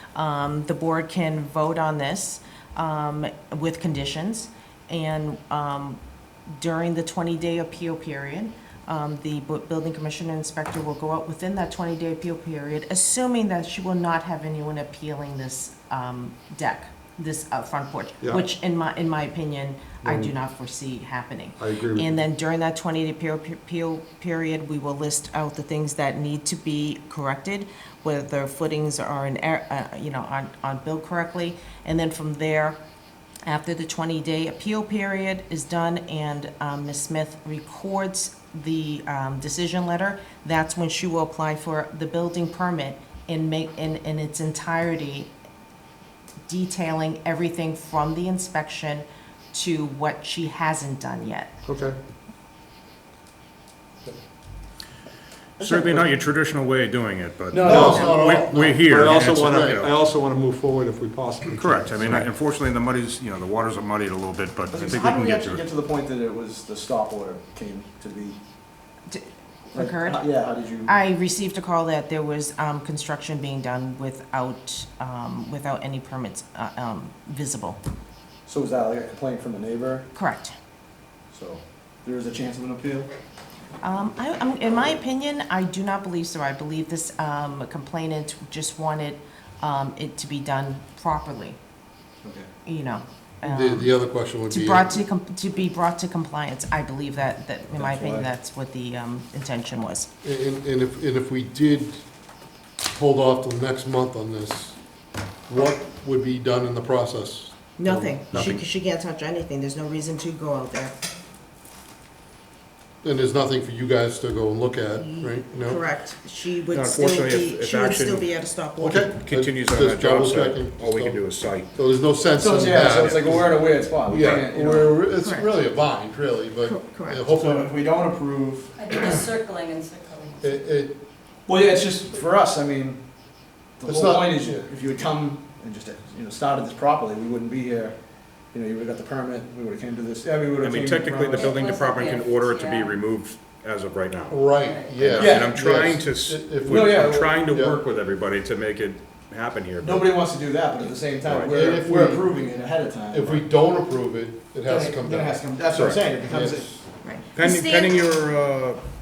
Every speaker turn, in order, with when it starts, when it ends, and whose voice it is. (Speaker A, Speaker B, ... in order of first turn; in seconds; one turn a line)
Speaker A: 0.1-32.8
Speaker B: 20.0-20.3
Speaker B: 21.6-22.2
Speaker A: 33.5-45.3
Speaker A: 46.5-51.5
Speaker B: 51.6-52.0
Speaker C: 55.6-56.1
Speaker D: 55.6-59.9
Speaker C: 57.5-57.9
Speaker E: 57.6-59.9
Speaker B: 57.6-62.3
Speaker D: 61.5-65.6
Speaker C: 64.7-68.4
Speaker A: 69.1-70.3
Speaker C: 69.7-70.9
Speaker A: 70.8-77.8
Speaker C: 78.5-80.1
Speaker A: 80.1-80.5
Speaker C: 81.3-83.1
Speaker A: 83.8-91.6
Speaker A: 92.7-93.9
Speaker E: 93.4-95.0
Speaker A: 94.5-100.1
Speaker C: 97.7-98.3
Speaker E: 100.2-102.0
Speaker E: 102.8-104.8
Speaker E: 105.5-108.2
Speaker A: 107.8-110.9
Speaker D: 108.3-108.6
Speaker E: 113.0-115.8
Speaker A: 114.9-119.1
Speaker D: 116.7-118.3
Speaker E: 118.8-127.8
Speaker D: 119.0-121.7
Speaker C: 122.4-125.0
Speaker D: 122.8-123.5
Speaker A: 125.2-125.5
Speaker A: 126.6-127.2
Speaker C: 127.2-129.1
Speaker F: 128.8-130.5
Speaker E: 130.4-131.3
Speaker C: 131.4-141.5
Speaker E: 133.8-134.7
Speaker D: 140.6-150.1
Speaker F: 141.3-143.0
Speaker E: 144.3-147.8
Speaker F: 144.5-145.3
Speaker C: 145.1-145.6
Speaker C: 146.6-147.5
Speaker C: 149.8-153.4
Speaker D: 151.2-151.6
Speaker E: 151.5-152.3
Speaker E: 153.1-155.4
Speaker C: 154.7-156.8
Speaker D: 155.7-156.0
Speaker E: 156.2-156.7
Speaker A: 157.0-157.9
Speaker D: 157.3-158.8